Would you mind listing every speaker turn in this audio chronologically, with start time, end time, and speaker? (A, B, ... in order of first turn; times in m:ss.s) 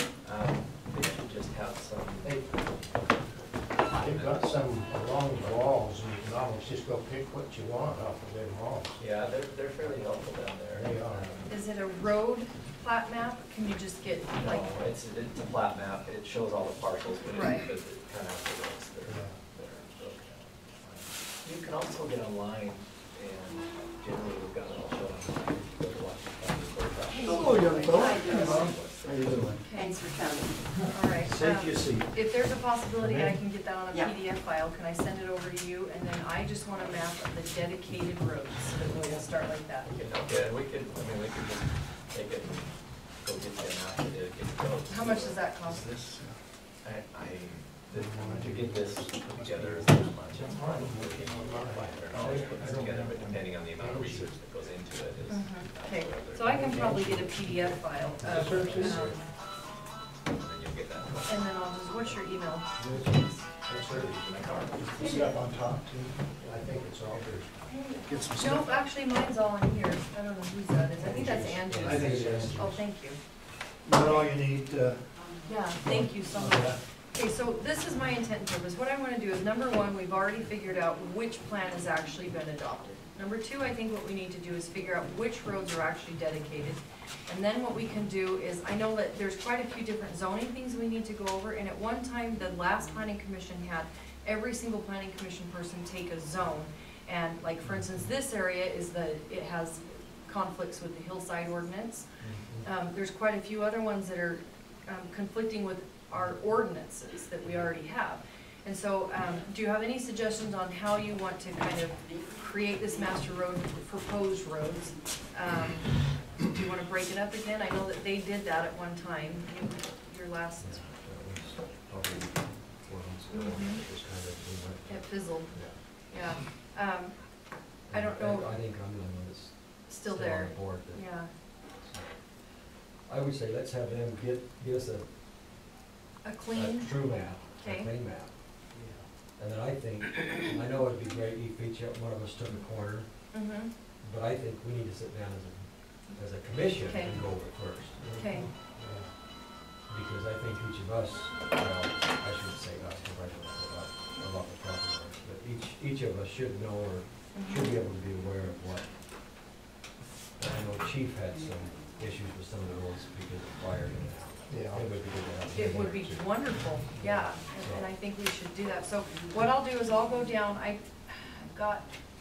0:00.2-0:02.7 A
0:03.6-0:04.5 A
0:03.9-0:09.0 B
0:09.0-0:11.5 A
0:10.7-0:11.4 B
0:11.5-0:14.8 C
0:14.3-0:29.6 A
0:17.3-0:17.7 C
0:19.0-0:19.4 B
0:27.1-0:28.8 D
0:27.2-0:29.7 B
0:29.6-0:30.1 C
0:29.8-0:30.7 D
0:30.6-0:32.2 B
0:30.9-0:39.9 C
0:33.0-0:33.4 B
0:39.9-0:45.5 A
0:44.9-0:45.8 C
0:45.6-0:46.5 E
0:46.8-0:56.6 A
0:47.9-0:54.3 B
0:49.6-0:50.0 E
0:52.0-0:53.1 F
0:55.3-0:59.2 C
0:56.4-0:59.1 B
0:58.5-0:59.1 A
0:58.7-0:59.2 F
1:00.3-1:01.6 A
1:01.2-1:03.5 C
1:03.6-1:04.2 B
1:03.7-1:05.0 A
1:04.8-1:07.6 B
1:05.0-1:05.4 C
1:05.4-1:06.2 E
1:07.6-1:14.3 C
1:08.0-1:08.8 E
1:11.0-1:12.7 F
1:11.8-1:12.8 B
1:13.8-1:15.1 B
1:15.1-1:15.7 D
1:15.4-1:42.1 C
1:15.8-1:16.8 B
1:20.6-1:23.1 D
1:24.8-1:25.1 D
1:42.3-1:42.6 B
1:42.6-2:00.8 C
1:51.6-1:53.6 D
1:54.6-1:55.0 D
2:00.6-2:05.8 F
2:03.3-2:03.8 C
2:04.8-2:08.5 C
2:07.9-2:15.2 F
2:09.9-2:11.3 C
2:16.2-2:17.9 C
2:16.5-2:18.6 F
2:18.7-2:19.1 B
2:19.4-2:28.4 F
2:23.3-2:23.7 C
2:26.8-2:27.3 C
2:28.0-2:29.1 B
2:28.2-2:28.5 C
2:29.7-2:39.2 F
2:37.3-2:37.7 C
2:40.4-2:47.9 F
2:41.3-2:42.3 D
2:44.5-2:44.9 B
2:45.5-2:52.0 C
2:47.4-2:47.7 D
2:49.1-2:50.7 D
2:51.4-2:52.0 D